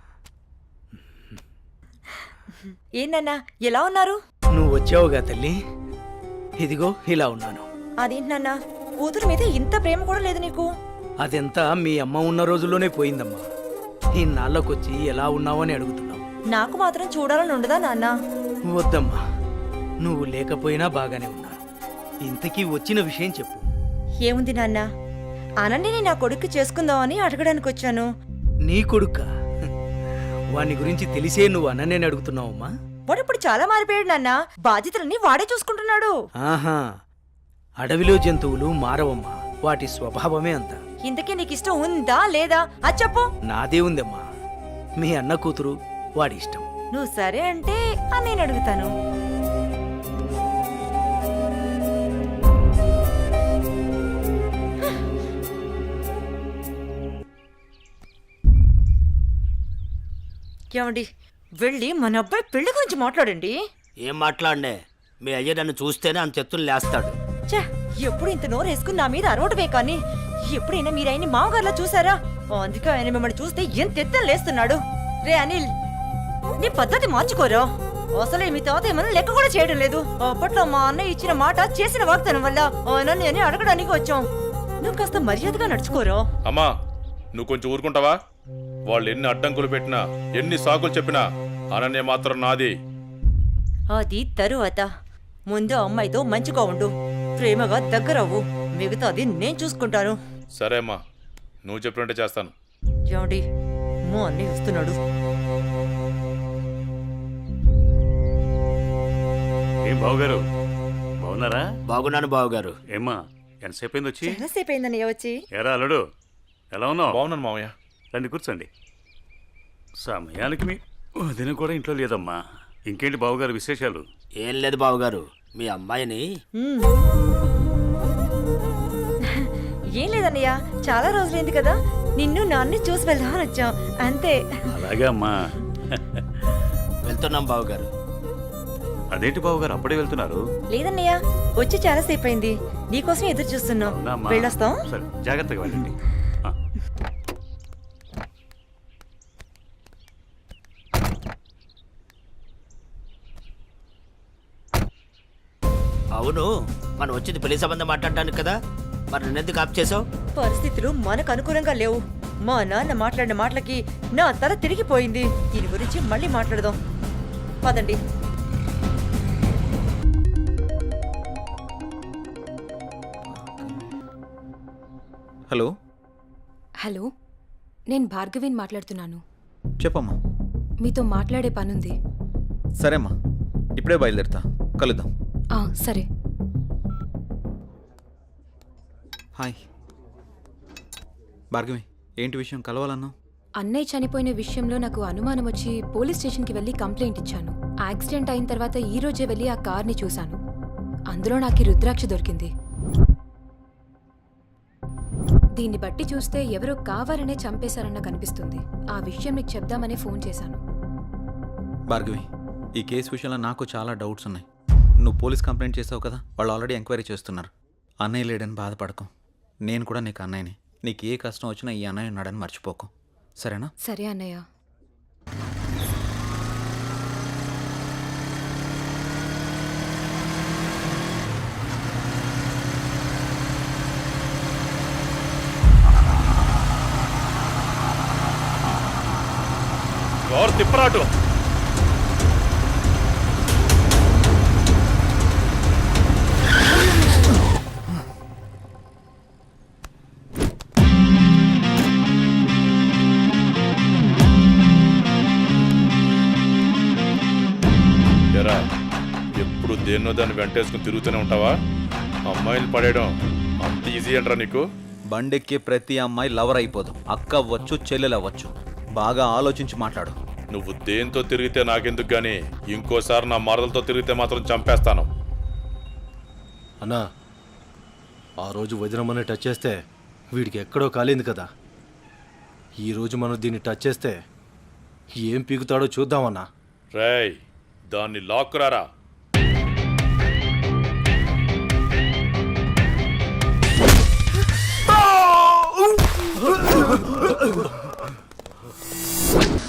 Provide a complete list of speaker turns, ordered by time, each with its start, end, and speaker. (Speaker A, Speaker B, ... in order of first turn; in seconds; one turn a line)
Speaker A: 3.0-4.2
Speaker B: 4.5-5.6
Speaker B: 6.6-7.7
Speaker A: 8.0-10.7
Speaker B: 11.2-13.5
Speaker B: 14.1-16.2
Speaker A: 16.5-18.1
Speaker B: 18.6-19.2
Speaker B: 20.0-21.6
Speaker B: 22.2-23.7
Speaker A: 24.2-24.8
Speaker A: 25.6-28.1
Speaker B: 28.6-29.3
Speaker B: 30.5-32.7
Speaker A: 33.1-36.1
Speaker B: 36.4-36.9
Speaker B: 37.8-40.8
Speaker A: 41.0-43.3
Speaker B: 43.5-44.3
Speaker B: 45.0-46.6
Speaker A: 46.9-48.9
Speaker A: 60.7-61.0
Speaker A: 61.6-63.6
Speaker C: 64.0-67.1
Speaker A: 67.5-75.7
Speaker A: 76.6-84.3
Speaker A: 84.8-86.2
Speaker D: 87.3-88.2
Speaker D: 88.9-92.7
Speaker A: 93.9-94.9
Speaker A: 95.5-100.2
Speaker D: 100.5-101.0
Speaker D: 101.6-102.5
Speaker A: 103.1-103.4
Speaker A: 104.1-105.0
Speaker E: 109.9-110.4
Speaker E: 111.2-111.6
Speaker C: 111.9-112.8
Speaker E: 112.9-114.4
Speaker A: 114.2-115.4
Speaker E: 115.5-116.0
Speaker E: 116.7-117.2
Speaker D: 117.1-117.7
Speaker E: 118.1-118.7
Speaker E: 120.0-122.4
Speaker E: 122.9-124.0
Speaker C: 124.4-126.3
Speaker A: 126.6-126.9
Speaker A: 129.3-134.4
Speaker E: 134.7-135.3
Speaker C: 137.0-137.9
Speaker E: 139.1-140.4
Speaker A: 140.7-144.8
Speaker E: 143.9-145.9
Speaker C: 156.1-158.6
Speaker C: 159.1-160.0
Speaker A: 160.3-166.8
Speaker A: 167.6-168.0
Speaker F: 173.3-173.9
Speaker G: 176.8-177.1
Speaker G: 177.9-179.2
Speaker F: 179.8-180.2
Speaker G: 180.8-181.9
Speaker F: 182.8-183.1
Speaker F: 183.8-185.1
Speaker G: 185.6-186.1
Speaker F: 191.5-193.1
Speaker G: 193.6-200.4
Speaker G: 201.1-202.5
Speaker G: 205.6-210.6
Speaker F: 211.9-214.4
Speaker F: 215.0-217.5
Speaker F: 218.0-219.1
Speaker F: 219.6-223.7
Speaker G: 223.8-224.4
Speaker D: 240.2-241.1
Speaker D: 258.3-258.6
Speaker D: 259.4-261.5
Speaker D: 262.3-264.6
Speaker F: 265.1-270.2
Speaker D: 270.5-275.1
Speaker H: 278.4-279.7
Speaker H: 280.4-281.4
Speaker H: 282.8-284.1
Speaker H: 285.2-286.4
Speaker D: 286.9-287.4
Speaker D: 287.9-288.9